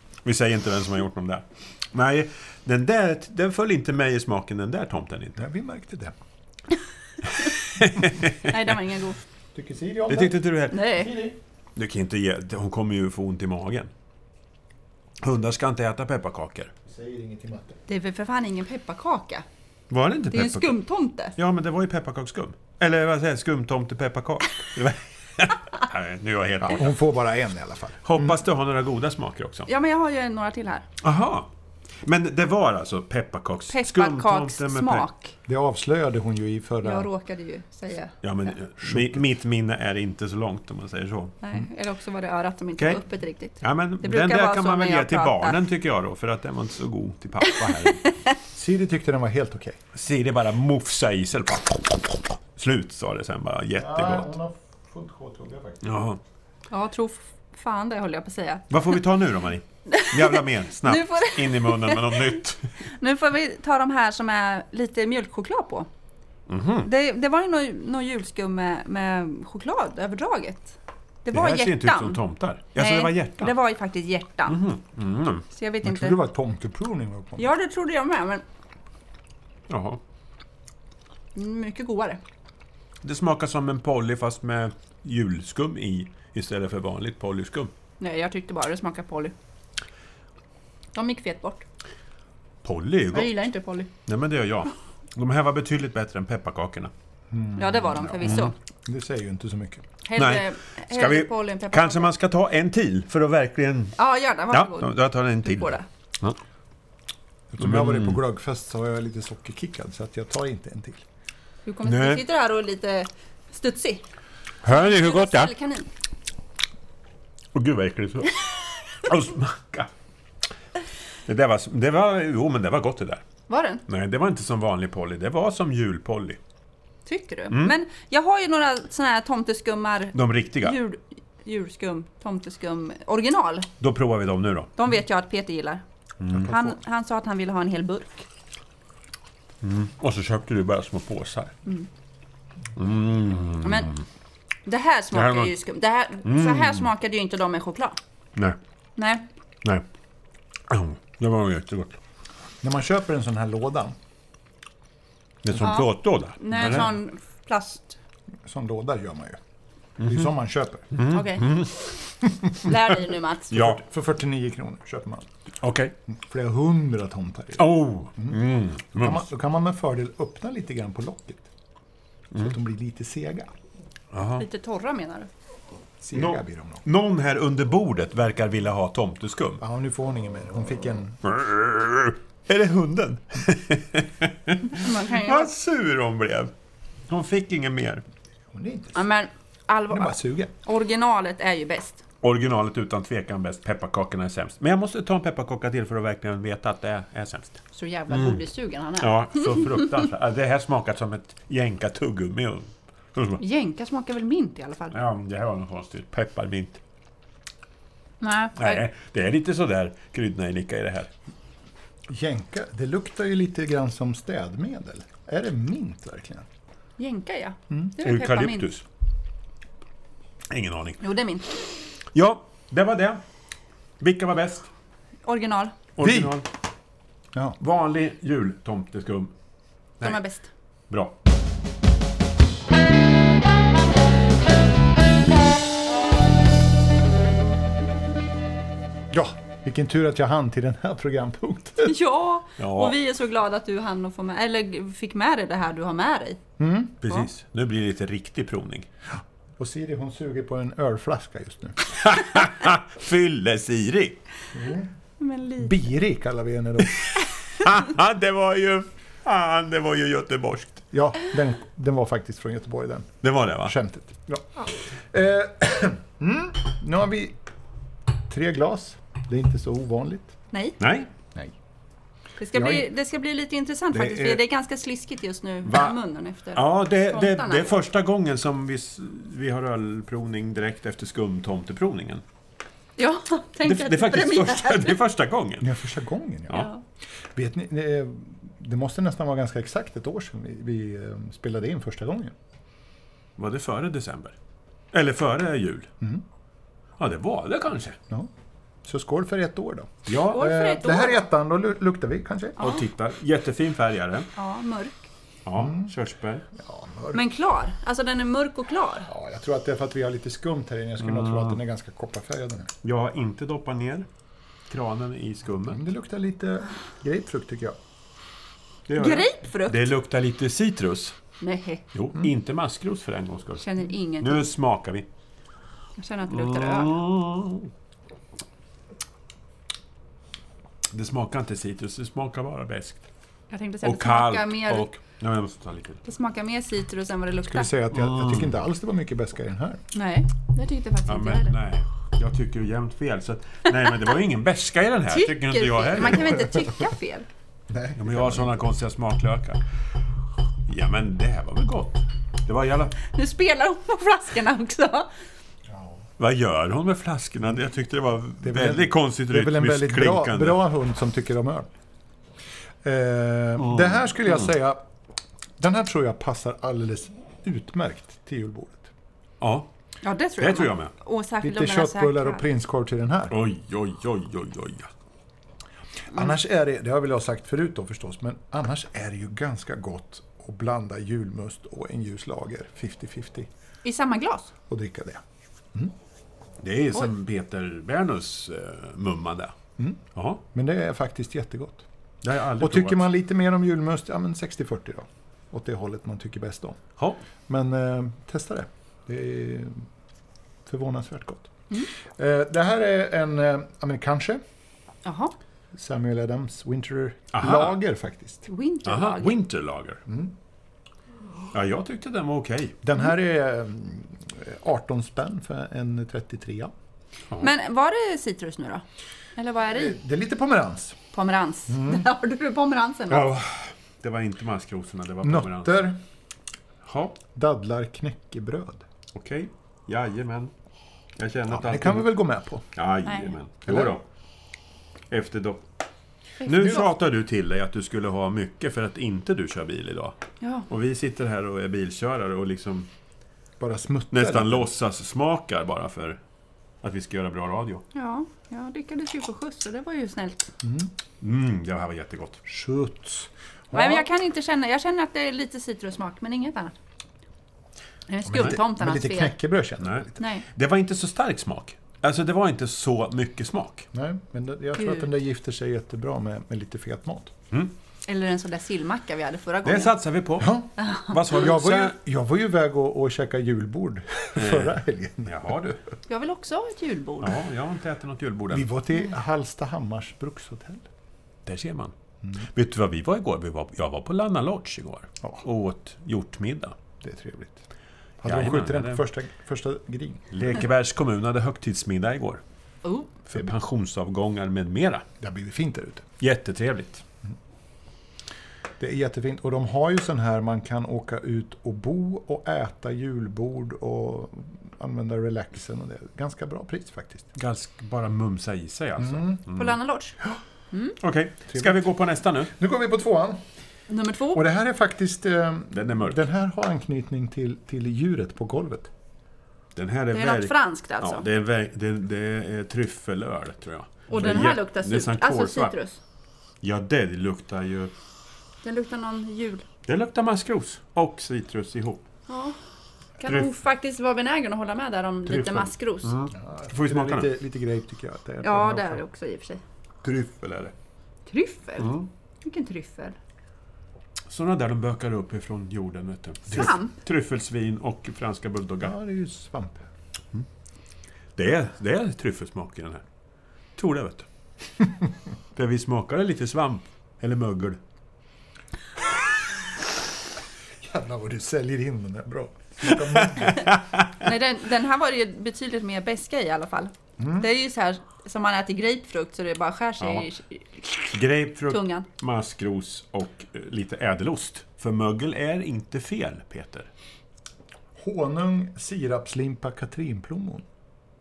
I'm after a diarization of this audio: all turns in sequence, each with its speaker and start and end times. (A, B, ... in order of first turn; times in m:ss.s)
0:00.2-0:05.4 A
0:05.4-0:06.1 B
0:07.4-0:08.6 A
0:08.5-0:09.2 C
0:09.5-0:11.4 B
0:10.1-0:13.9 A
0:10.7-0:11.1 C
0:15.2-0:16.7 A
0:16.9-0:17.8 B
0:17.9-0:19.4 C
0:19.9-0:20.8 A
0:20.3-0:21.3 C
0:21.4-0:27.0 A
0:26.6-0:28.3 B
0:28.0-0:29.7 A
0:29.7-0:30.9 C
0:31.0-0:31.5 A
0:32.0-0:35.1 A
0:33.7-0:35.3 C
0:35.5-0:37.1 B
0:36.8-0:38.2 C
0:38.2-0:41.4 A
0:38.8-0:39.2 B
0:41.4-0:45.6 C
0:43.6-0:48.1 A
0:47.8-0:48.1 C
0:48.6-0:49.8 B
0:49.9-0:54.3 A
0:53.8-0:56.0 B
0:55.8-0:56.2 A
0:56.7-0:58.6 C
0:58.7-1:02.7 A
0:59.9-1:02.2 C
1:02.9-1:05.9 C
1:06.5-1:06.9 A
1:06.8-1:12.2 C
1:11.3-1:13.5 A
1:12.8-1:14.6 C
1:14.5-1:15.4 A
1:15.5-1:16.2 C
1:15.8-1:17.5 B
1:17.4-1:18.4 C
1:19.7-1:20.0 A
1:21.4-1:22.2 C
1:23.0-1:27.7 A
1:28.0-1:29.3 C
1:30.9-1:31.6 C
1:32.6-1:33.5 A
1:33.1-1:33.9 C
1:34.0-1:36.9 A
1:37.3-1:39.8 B
1:37.6-1:38.5 C
1:38.2-1:38.5 A
1:40.0-1:42.1 C
1:40.2-1:44.0 A
1:44.0-1:45.8 C
1:44.5-1:46.4 A
1:47.5-1:51.0 B
1:47.6-1:48.2 A
1:51.7-1:54.0 C
1:51.8-1:52.2 A
1:54.6-1:55.5 A
1:54.7-1:55.9 C
1:57.5-1:58.4 A
1:59.0-1:59.9 A
2:01.3-2:03.2 A
2:03.5-2:03.8 C
2:03.9-2:06.4 A
2:07.1-2:13.7 C
2:10.1-2:10.8 A
2:13.8-2:14.7 A
2:14.8-2:15.8 C
2:16.2-2:16.6 A
2:16.4-2:16.7 B
2:16.4-2:18.3 C
2:19.6-2:21.5 A
2:22.8-2:24.0 A
2:23.6-2:23.9 C
2:24.7-2:28.0 C
2:25.1-2:25.5 A
2:26.2-2:26.9 A
2:29.0-2:29.3 C
2:30.7-2:32.0 A
2:32.6-2:34.0 B
2:35.4-2:36.9 A
2:35.6-2:38.0 C
2:38.4-2:39.4 B
2:40.0-2:40.3 A
2:40.0-2:41.0 B
2:40.9-2:41.9 A
2:41.1-2:41.5 C
2:42.6-2:43.6 C
2:43.5-2:43.8 A
2:43.5-2:45.3 B
2:45.6-2:45.9 A
2:46.1-2:48.4 B
2:47.6-2:49.3 A
2:49.0-2:51.5 B
2:52.3-2:53.5 B
2:54.1-2:54.4 A
2:54.4-2:55.3 C
2:56.0-2:56.8 B
2:56.1-2:59.6 A
2:59.6-3:01.2 B
3:01.2-3:06.5 A
3:04.7-3:05.5 C
3:07.1-3:08.0 A
3:08.5-3:09.1 B
3:09.0-3:12.0 C
3:09.9-3:10.5 B
3:12.2-3:18.4 A
3:17.7-3:19.9 C
3:19.0-3:23.4 A
3:23.4-3:25.0 C
3:24.9-3:26.8 A
3:28.2-3:28.8 C
3:28.6-3:31.1 A
3:32.1-3:36.5 B
3:37.0-3:38.7 C
3:38.0-3:38.8 A
3:40.5-3:41.0 A
3:41.0-3:41.5 C
3:42.1-3:43.2 A
3:44.0-3:44.7 A
3:45.2-3:45.8 C
3:46.0-3:46.5 A
3:46.0-3:46.4 B
3:47.6-3:49.3 A
3:50.0-3:50.5 C
3:50.9-3:51.2 A
3:59.1-4:02.0 B
4:01.8-4:06.4 C
4:02.6-4:03.0 A
4:06.6-4:07.0 B
4:07.0-4:08.9 A
4:09.6-4:11.8 B
4:11.9-4:14.2 A
4:14.5-4:14.9 B
4:15.2-4:15.8 C
4:15.6-4:17.0 B
4:17.6-4:20.8 A
4:20.9-4:27.4 B
4:23.2-4:23.8 A
4:28.3-4:30.4 B
4:30.5-4:30.8 C
4:30.8-4:31.1 A
4:32.4-4:37.8 C
4:32.5-4:32.9 B
4:33.9-4:34.4 B
4:35.6-4:36.0 A
4:36.5-4:42.2 A
4:43.0-4:45.0 C
4:43.6-4:45.7 A
4:45.6-4:46.7 B
4:46.5-4:46.8 C
4:47.4-4:52.3 B
4:53.4-4:54.4 A
4:54.9-4:55.9 A
4:57.0-4:58.0 A
4:58.8-5:02.6 B
5:00.1-5:00.6 A
5:00.3-5:01.2 C
5:02.6-5:02.8 C
5:02.6-5:04.3 A
5:04.4-5:05.1 C
5:05.4-5:06.4 A
5:05.6-5:05.9 B
5:06.6-5:07.2 B
5:07.1-5:09.1 C
5:09.1-5:12.7 B
5:11.1-5:11.6 A
5:12.8-5:14.1 A
5:14.7-5:15.8 A
5:15.7-5:17.8 B
5:18.9-5:21.2 A
5:19.0-5:19.9 C
5:21.4-5:21.8 C
5:21.9-5:23.6 A
5:23.6-5:24.5 C
5:24.2-5:25.1 A
5:26.0-5:27.0 C
5:26.3-5:27.7 A
5:30.9-5:33.0 A
5:33.5-5:34.9 C
5:33.8-5:36.0 A
5:36.0-5:37.7 C
5:37.5-5:39.8 B
5:37.9-5:38.5 A
5:39.9-5:41.6 C
5:41.1-5:46.5 A
5:45.1-5:47.3 C
5:47.7-5:48.6 B
5:48.0-5:49.6 A
5:50.7-5:53.0 A
5:53.1-5:55.1 C
5:55.7-5:56.0 B
5:56.2-6:00.6 A
5:58.4-6:01.7 B
6:02.8-6:04.9 B
6:03.6-6:04.0 A
6:05.6-6:08.9 B
6:09.4-6:09.7 A
6:10.0-6:12.4 C
6:10.4-6:10.9 A
6:11.4-6:13.4 B
6:13.3-6:14.9 A
6:16.1-6:23.5 B
6:23.8-6:24.5 C
6:24.7-6:25.2 B
6:26.6-6:29.5 A
6:30.2-6:30.4 A
6:30.5-6:31.8 B
6:32.2-6:33.1 A
6:32.6-6:36.8 B
6:37.5-6:39.9 B
6:40.7-6:41.5 B
6:42.0-6:44.4 B
6:45.0-6:45.3 C
6:45.7-6:48.5 B
6:47.3-6:47.8 A
6:48.5-6:49.4 C
6:48.8-6:50.0 A
6:50.1-6:50.4 B
6:51.5-6:52.8 A
6:52.8-6:56.7 B
6:57.4-6:58.8 C
6:59.4-7:00.0 C
6:59.7-7:01.0 B
7:01.1-7:03.3 C
7:01.7-7:02.1 B
7:03.1-7:05.9 A
7:05.2-7:06.0 B
7:06.8-7:07.2 A
7:07.4-7:08.8 B
7:09.1-7:10.5 A
7:11.2-7:12.2 A
7:11.5-7:12.7 B
7:12.8-7:14.0 A
7:13.0-7:13.3 C
7:13.7-7:14.0 B
7:15.1-7:15.6 A
7:16.4-7:16.9 C
7:16.4-7:20.2 A
7:20.7-7:22.9 A
7:23.6-7:24.7 B
7:24.1-7:26.2 A
7:26.8-7:27.8 A
7:27.9-7:30.5 C
7:30.6-7:30.9 B
7:31.2-7:32.4 A
7:32.5-7:34.1 B
7:33.7-7:36.7 C
7:38.1-7:39.4 C
7:38.3-7:40.2 B
7:39.8-7:43.9 A
7:40.2-7:40.4 C
7:43.9-7:47.3 B
7:44.8-7:45.1 C
7:48.1-7:50.0 C
7:49.6-7:52.0 A
7:50.4-7:50.7 B
7:50.8-7:51.1 C
7:51.3-7:55.5 B
7:54.4-7:55.8 A
7:56.1-7:57.4 C
7:57.2-7:58.7 A
7:58.5-8:00.8 B
8:01.5-8:01.9 A
8:02.5-8:06.8 A
8:07.0-8:07.6 B
8:08.2-8:10.4 B
8:08.2-8:09.0 A
8:10.3-8:12.4 A
8:12.8-8:13.1 C
8:13.3-8:15.0 A
8:15.2-8:16.1 B
8:16.2-8:17.0 A
8:18.8-8:27.3 B
8:27.4-8:29.8 A
8:29.0-8:29.4 B
8:29.6-8:30.2 C
8:31.0-8:32.5 A
8:31.5-8:31.8 B
8:32.6-8:33.4 B
8:33.9-8:34.4 C
8:34.3-8:38.9 B
8:35.7-8:36.2 A
8:39.8-8:45.7 A
8:40.1-8:41.3 C
8:44.1-8:46.0 C
8:46.6-8:47.9 A
8:48.6-8:49.6 C
8:49.9-8:52.0 A
8:52.3-8:52.6 C
8:53.2-8:56.2 C
8:53.2-8:53.5 A
8:55.3-8:57.3 A
8:56.3-8:59.0 B
8:58.4-8:59.6 C
9:00.0-9:00.7 A
9:01.3-9:03.2 C
9:01.8-9:02.1 A
9:04.3-9:09.0 A
9:06.5-9:06.9 C
9:08.8-9:09.9 B
9:11.4-9:13.0 A
9:13.8-9:14.3 A
9:15.6-9:17.8 A
9:20.8-9:23.7 B
9:22.9-9:24.1 A
9:24.2-9:31.1 C
9:27.2-9:27.5 B
9:30.0-9:30.3 A
9:31.1-9:36.9 A
9:31.7-9:32.1 C
9:38.0-9:40.6 B